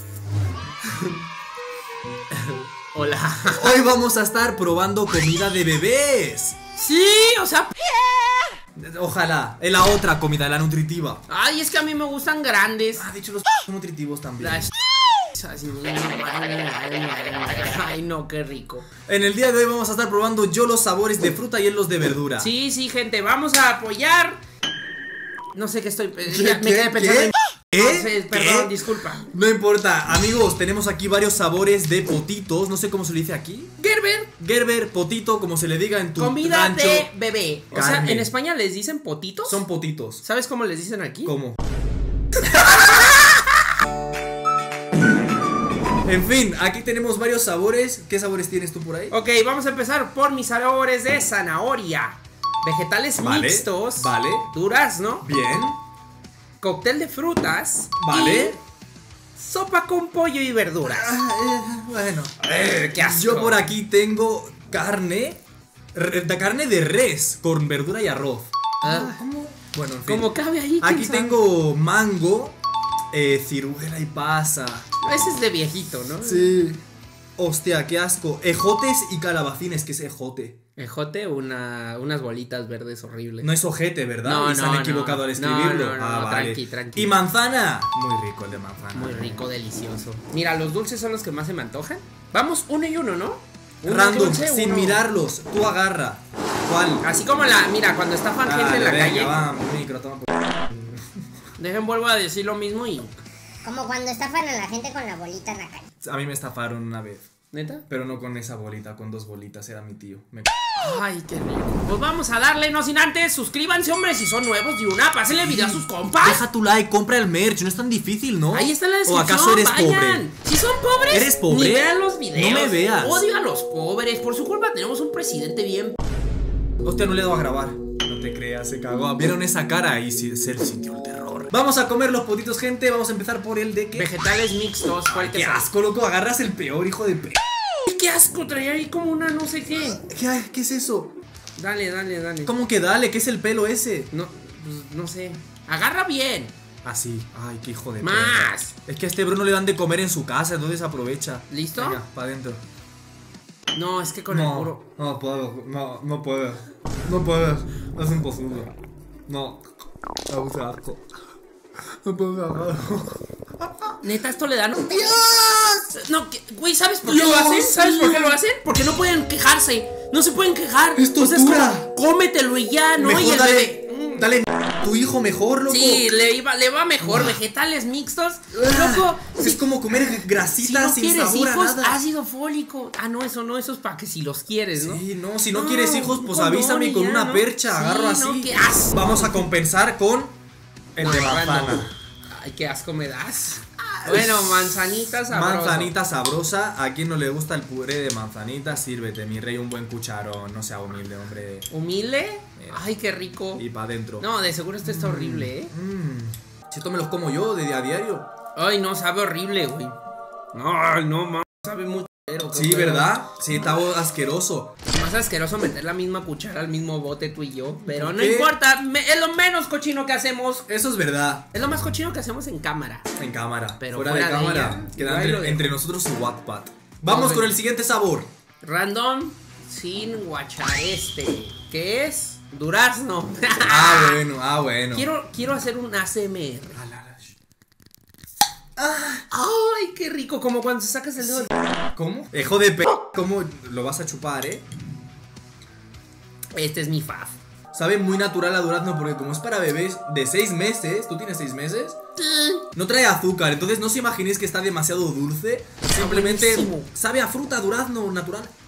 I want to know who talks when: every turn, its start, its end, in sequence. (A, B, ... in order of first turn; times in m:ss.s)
0:02.3-0:03.8 A
0:03.5-0:06.6 B
0:06.8-0:07.7 A
0:08.8-0:11.2 B
0:11.3-0:13.0 A
0:13.0-0:14.7 B
0:14.4-0:14.7 A
0:15.3-0:18.8 A
0:19.1-0:22.5 B
0:22.4-0:24.4 A
0:25.5-0:29.3 A
0:26.2-0:33.8 B
0:33.8-0:34.3 A
0:34.4-0:37.1 B
0:36.2-0:39.6 A
0:37.7-0:38.3 B
0:39.4-0:40.2 B
0:40.2-0:41.3 A
0:41.2-0:41.6 B
0:42.5-0:43.2 A
0:46.0-0:49.1 B
0:49.1-0:55.2 A
0:53.2-0:54.5 B
0:55.2-0:55.8 B
0:56.6-0:58.6 A
0:58.0-0:58.6 B
0:59.4-1:01.2 A
1:00.8-1:02.4 B
1:02.4-1:03.6 A
1:02.9-1:05.4 B
1:05.9-1:12.6 B
1:08.8-1:09.2 A
1:10.0-1:11.4 A
1:13.1-1:14.9 B
1:15.0-1:16.6 A
1:16.2-1:16.8 B
1:17.4-1:20.6 B
1:20.8-1:23.5 A
1:23.4-1:29.5 B
1:24.2-1:27.1 A
1:28.9-1:35.0 A
1:33.8-1:37.0 B
1:37.0-1:39.4 A
1:38.4-1:41.0 B
1:41.6-1:43.2 A
1:43.6-1:45.8 C
1:46.0-1:47.2 B
1:47.5-1:47.8 A
1:47.9-1:50.5 B
1:50.8-1:56.4 A
1:55.4-2:00.2 B
1:58.5-2:06.0 A
2:01.1-2:03.2 B
2:06.8-2:14.1 B
2:13.9-2:15.7 A
2:15.1-2:17.4 B
2:17.8-2:20.0 A
2:19.8-2:21.1 B
2:21.6-2:22.5 A
2:22.4-2:24.1 B
2:24.1-2:26.5 A
2:26.8-2:32.6 B
2:28.0-2:28.7 A
2:31.5-2:32.0 A
2:33.7-2:34.8 A
2:34.3-2:38.7 B
2:39.3-2:39.6 B
2:40.3-2:41.1 B
2:42.0-2:44.0 B
2:44.0-2:45.0 A
2:44.8-2:45.9 B
2:45.9-2:54.3 A
2:47.0-2:48.4 B
2:50.9-2:51.9 B
2:53.0-2:56.1 B
2:55.7-3:09.5 A
2:57.0-2:57.4 B
2:58.5-3:02.0 B
3:04.8-3:10.3 B
3:11.0-3:11.9 B
3:11.0-3:15.9 A
3:14.0-3:14.6 B
3:15.3-3:21.7 B
3:21.7-3:23.6 A
3:23.5-3:24.3 B
3:24.2-3:25.7 A
3:24.8-3:28.3 B
3:28.6-3:30.0 A
3:30.5-3:33.1 A
3:32.5-3:34.7 B
3:34.9-3:40.6 A
3:37.8-3:38.5 B
3:40.7-3:41.5 B
3:41.5-3:43.1 A
3:43.2-3:48.3 B
3:43.8-3:45.7 A
3:47.0-3:47.5 A
3:48.6-3:54.2 A
3:53.6-3:55.1 B
3:54.9-3:56.8 A
3:56.7-3:57.4 B
3:58.8-3:59.2 B
3:59.3-4:01.6 A
4:01.2-4:04.6 B
4:06.5-4:07.4 A
4:07.7-4:12.0 B
4:12.2-4:12.6 A
4:12.7-4:18.5 B
4:15.9-4:16.9 A